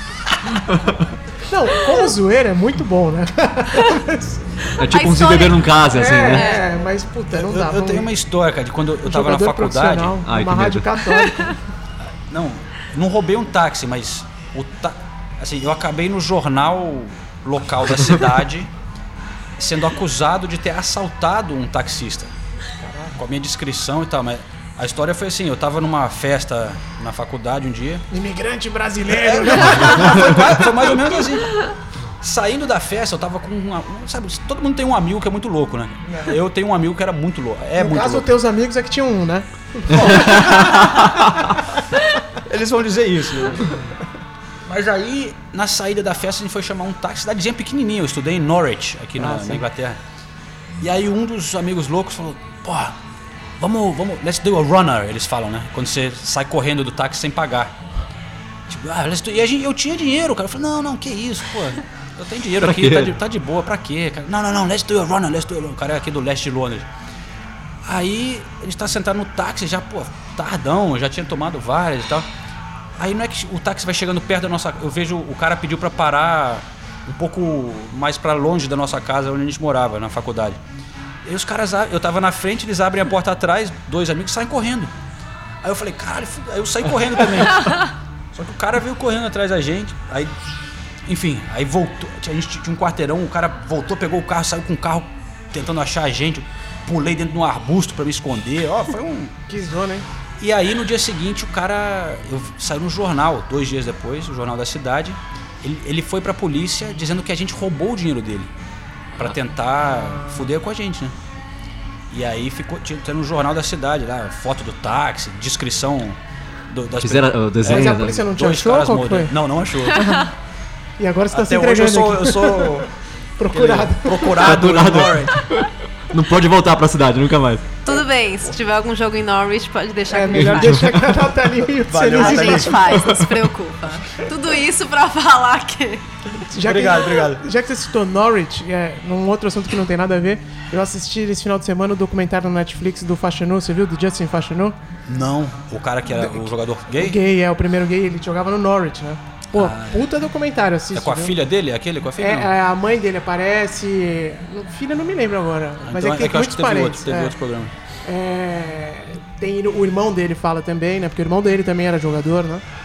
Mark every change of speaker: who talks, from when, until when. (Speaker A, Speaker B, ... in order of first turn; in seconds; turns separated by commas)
Speaker A: 0.7-1.1, Speaker B: 1.5-4.4, Speaker A: 4.8-6.6, Speaker C: 4.8-5.7, Speaker B: 5.9-8.1, Speaker C: 6.2-6.6, Speaker D: 7.3-10.2, Speaker B: 9.1-11.6, Speaker A: 10.2-10.9, Speaker D: 12.3-18.7, Speaker D: 19.6-22.3, Speaker B: 22.8-23.2, Speaker D: 23.2-28.1, Speaker B: 28.1-30.6, Speaker D: 29.1-31.6, Speaker D: 32.2-38.3, Speaker B: 36.1-36.4, Speaker B: 37.8-41.8, Speaker D: 42.4-43.8, Speaker D: 44.6-50.0, Speaker B: 49.2-49.6, Speaker D: 50.8-53.0, Speaker D: 53.6-57.8, Speaker D: 58.7-66.9, Speaker A: 62.6-63.1, Speaker D: 67.8-72.3, Speaker D: 73.0-80.6, Speaker D: 81.2-84.9, Speaker D: 85.6-90.4, Speaker D: 91.1-99.3, Speaker B: 99.5-100.1, Speaker D: 100.4-108.5, Speaker D: 109.2-111.2, Speaker B: 109.9-110.4, Speaker D: 112.1-116.2, Speaker D: 116.7-120.1, Speaker A: 117.0-118.2, Speaker B: 117.6-119.3, Speaker B: 119.9-120.3, Speaker B: 121.0-122.9, Speaker D: 121.3-122.9, Speaker B: 123.4-124.6, Speaker D: 123.5-125.5, Speaker A: 124.4-127.6, Speaker C: 127.8-130.9, Speaker B: 130.1-132.9, Speaker A: 130.3-130.8, Speaker D: 131.9-132.8, Speaker C: 132.2-136.1, Speaker A: 133.0-133.3, Speaker B: 136.5-144.8, Speaker D: 136.6-137.4, Speaker D: 145.1-147.2, Speaker B: 146.1-151.3, Speaker D: 149.5-150.1, Speaker D: 150.9-152.5, Speaker B: 152.2-157.3, Speaker D: 155.8-157.7, Speaker B: 158.1-162.6